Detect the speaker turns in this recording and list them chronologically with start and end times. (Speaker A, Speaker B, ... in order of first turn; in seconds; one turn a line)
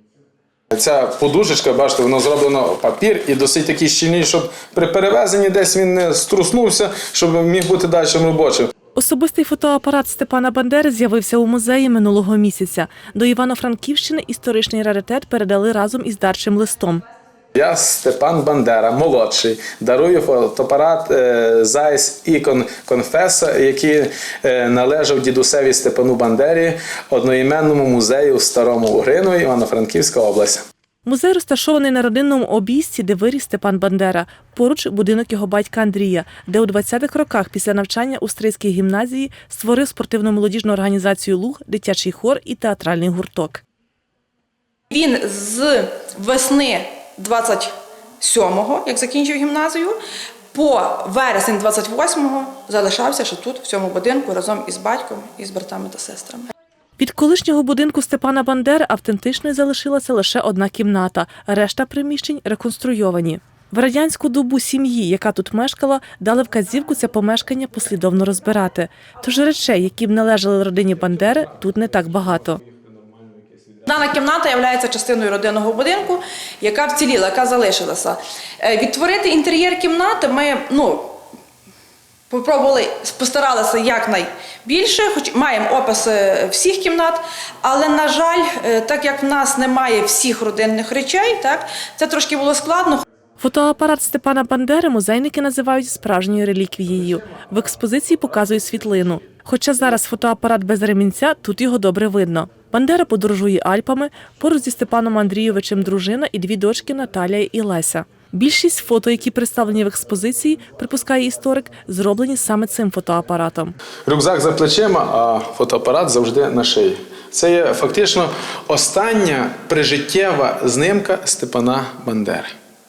Speaker A: 0.7-8.7
Speaker B: 8.9-17.0
Speaker A: 17.6-30.6
Speaker B: 31.1-43.6
Speaker C: 44.9-50.0
Speaker C: 50.5-56.5
Speaker B: 57.0-72.6
Speaker A: 72.6-73.8
Speaker C: 73.9-81.2
Speaker C: 82.3-93.0
Speaker B: 93.4-113.7
Speaker A: 114.1-122.5